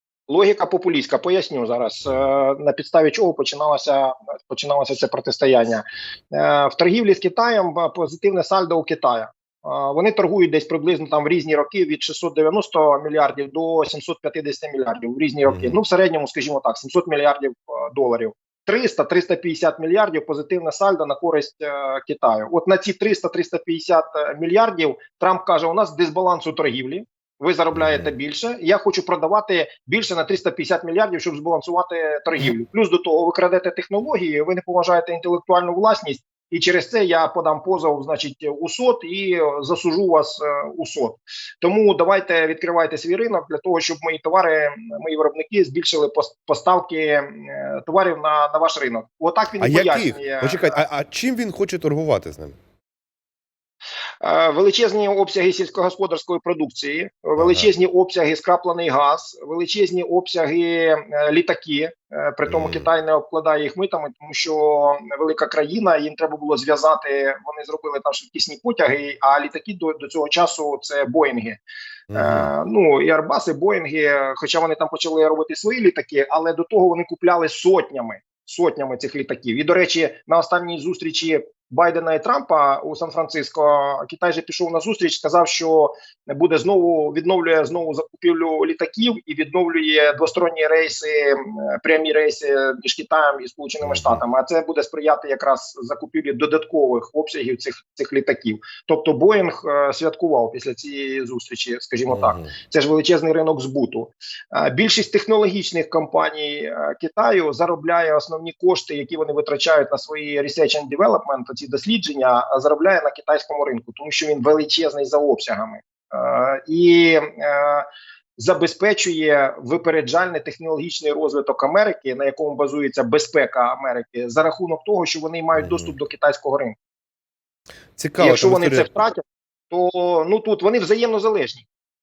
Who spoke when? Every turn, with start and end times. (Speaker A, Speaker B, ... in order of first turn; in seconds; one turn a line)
Speaker A: 0.3-50.8
Speaker B: 15.5-15.8
Speaker B: 27.8-28.1
Speaker B: 49.6-52.6
Speaker A: 54.2-71.6
Speaker B: 57.4-57.7
Speaker B: 62.5-62.9
Speaker B: 72.1-72.5
Speaker A: 72.1-126.8
Speaker B: 93.8-94.2
Speaker B: 102.1-102.5
Speaker B: 125.5-125.9
Speaker B: 128.0-128.9
Speaker A: 128.2-131.7